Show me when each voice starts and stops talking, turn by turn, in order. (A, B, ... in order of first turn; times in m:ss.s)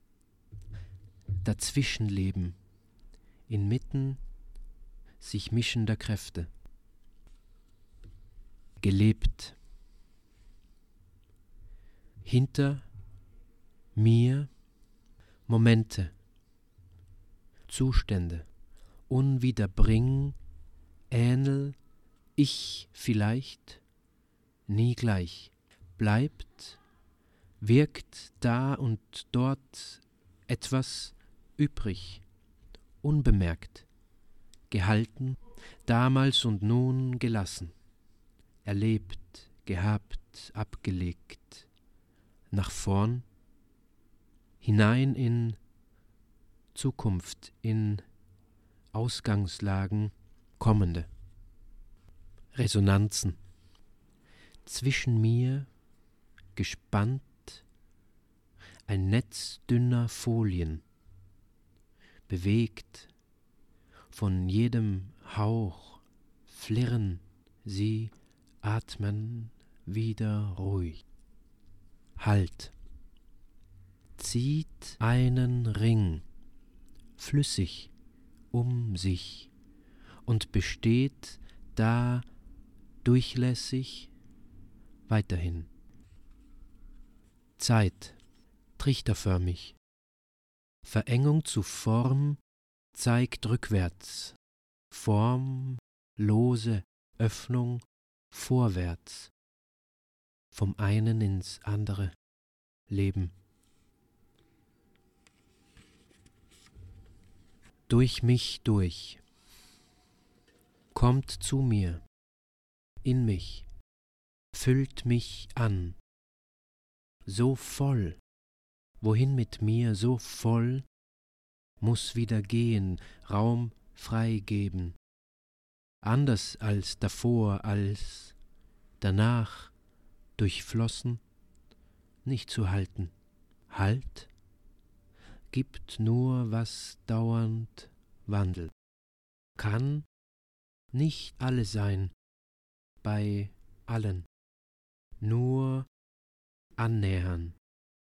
0:01.4-0:02.6 A
0:03.5-0:04.2 A
0:05.2-0:06.5 A
0:08.8-0:09.6 A
0:12.2-0:12.9 A
0:13.9-0:14.5 A
0:15.5-0:16.1 A
0:17.7-0:18.5 A
0:19.1-0:20.4 A
0:21.1-0:21.8 A
0:22.4-0:23.8 A
0:24.7-0:26.8 A
0:27.6-0:32.2 A
0:33.0-0:33.9 A
0:34.7-0:37.7 A
0:38.6-0:41.7 A
0:42.5-0:43.2 A
0:44.6-0:45.6 A
0:46.7-0:48.0 A
0:48.9-0:51.1 A
0:52.5-0:53.4 A
0:54.6-0:55.7 A
0:56.6-0:57.6 A
0:58.9-1:00.8 A
1:02.3-1:03.1 A
1:04.1-1:11.0 A
1:12.2-1:12.7 A
1:14.2-1:16.2 A
1:17.2-1:17.9 A
1:18.5-1:19.5 A
1:20.3-1:22.2 A
1:23.0-1:24.1 A
1:25.1-1:25.7 A
1:27.6-1:28.2 A
1:28.8-1:29.8 A
1:30.8-1:32.4 A
1:32.9-1:34.4 A
1:34.9-1:39.3 A
1:40.5-1:42.1 A
1:42.9-1:43.3 A
1:47.9-1:49.2 A
1:50.9-1:52.0 A
1:53.0-1:53.6 A
1:54.5-1:56.0 A
1:57.2-1:58.2 A
1:59.0-2:00.8 A
2:01.8-2:05.0 A
2:06.0-2:08.4 A
2:09.0-2:09.7 A
2:10.4-2:11.2 A
2:12.2-2:13.1 A
2:13.7-2:14.3 A
2:15.5-2:18.7 A
2:19.6-2:20.1 A
2:20.9-2:22.1 A
2:23.0-2:24.3 A
2:25.2-2:25.9 A
2:26.8-2:27.6 A